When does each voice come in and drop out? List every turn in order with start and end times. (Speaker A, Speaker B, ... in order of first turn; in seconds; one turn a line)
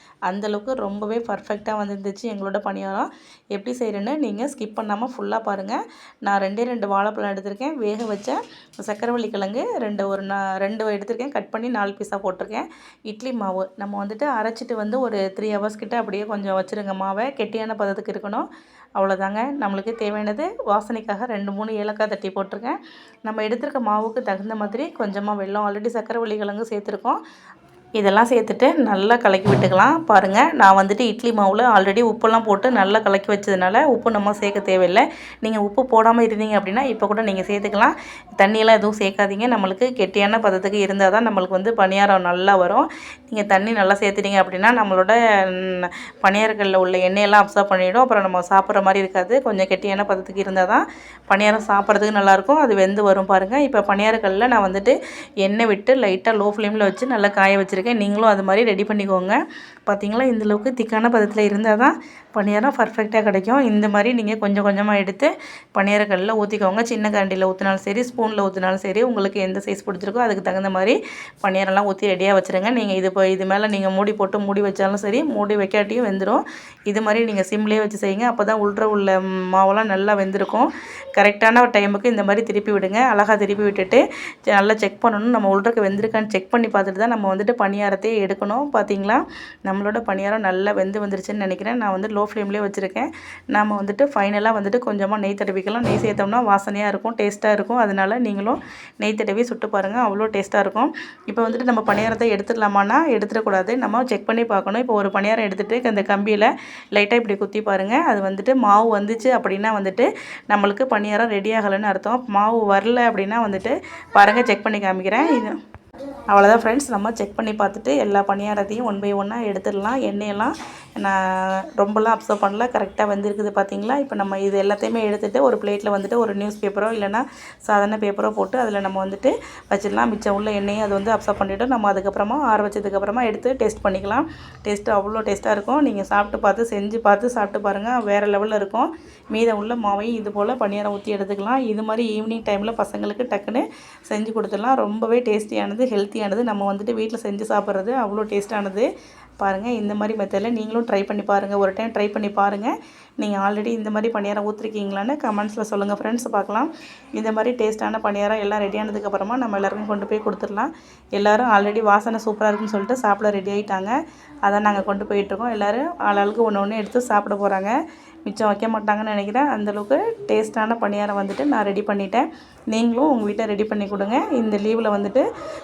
Speaker A: 0.3-18.5
Speaker A: 19.0-27.2
Speaker A: 28.0-115.6
Speaker A: 116.3-148.9
Speaker A: 149.4-167.8
Speaker A: 168.3-175.2